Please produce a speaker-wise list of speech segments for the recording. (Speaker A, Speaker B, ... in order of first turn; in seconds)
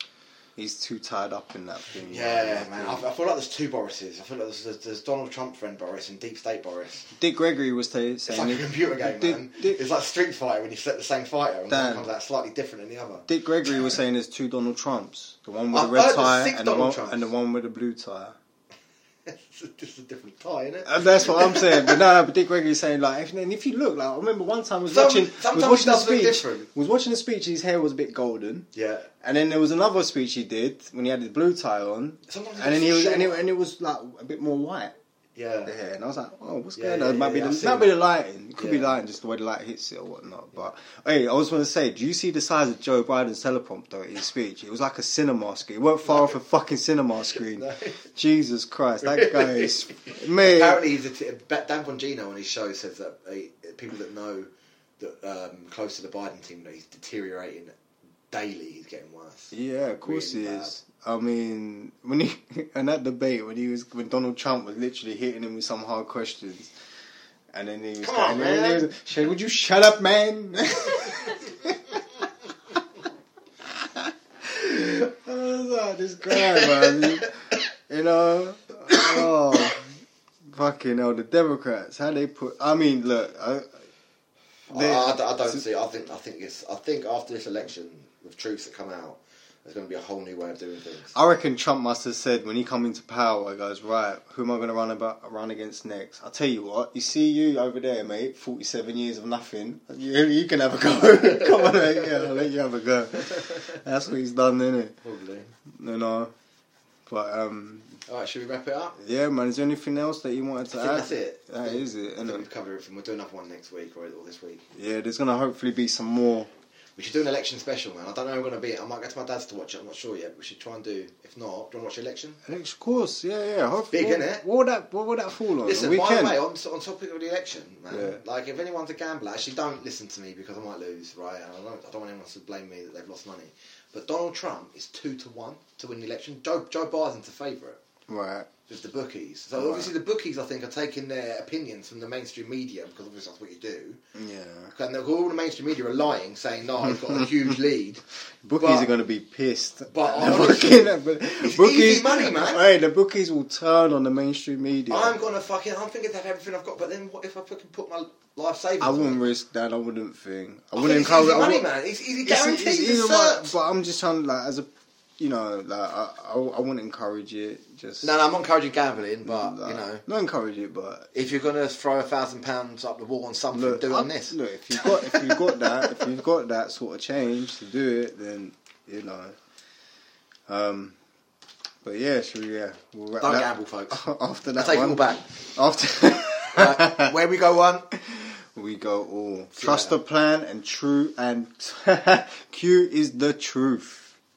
Speaker A: 0.6-3.1, 7.1-9.8, 11.7-12.1, 13.3-18.4, 20.9-28.7, 29.2-35.0, 35.7-50.8, 59.5-66.7, 67.5-71.8, 73.6-79.9, 80.5-83.8, 84.7-85.6, 91.1-105.0, 105.7-106.3, 107.1-108.0, 109.0-112.5, 114.8-116.5, 122.5-126.4, 127.9-128.2, 138.1-138.5, 139.6-139.9, 144.2-144.7, 146.9-147.3, 148.4-155.2, 158.8-161.7, 162.2-164.7, 165.2-168.2, 169.2-171.1, 173.5-179.4, 180.5-181.0, 181.8-187.1, 187.9-194.2
Speaker B: 1.9-7.1, 8.3-13.3, 15.7-17.3, 19.3-22.0, 24.9-26.7, 28.7-29.1, 32.3-33.5, 35.4-35.7, 36.8-37.9, 38.6-38.9, 46.0-46.4, 47.4-48.0, 49.0-54.5, 55.0-57.8, 58.3-60.7, 68.0-68.9, 76.3-77.2, 78.9-79.8, 84.7-91.1, 101.6-102.2, 105.0-105.5, 108.1-109.0, 110.7-114.7, 117.0-122.4, 123.9-124.5, 125.6-137.8, 138.7-144.0, 144.7-148.1, 148.6-148.9, 149.9-152.6, 154.9-159.2, 160.8-163.6, 168.0-170.0, 171.1-175.9, 183.2-185.4, 186.5-187.9, 189.6-189.9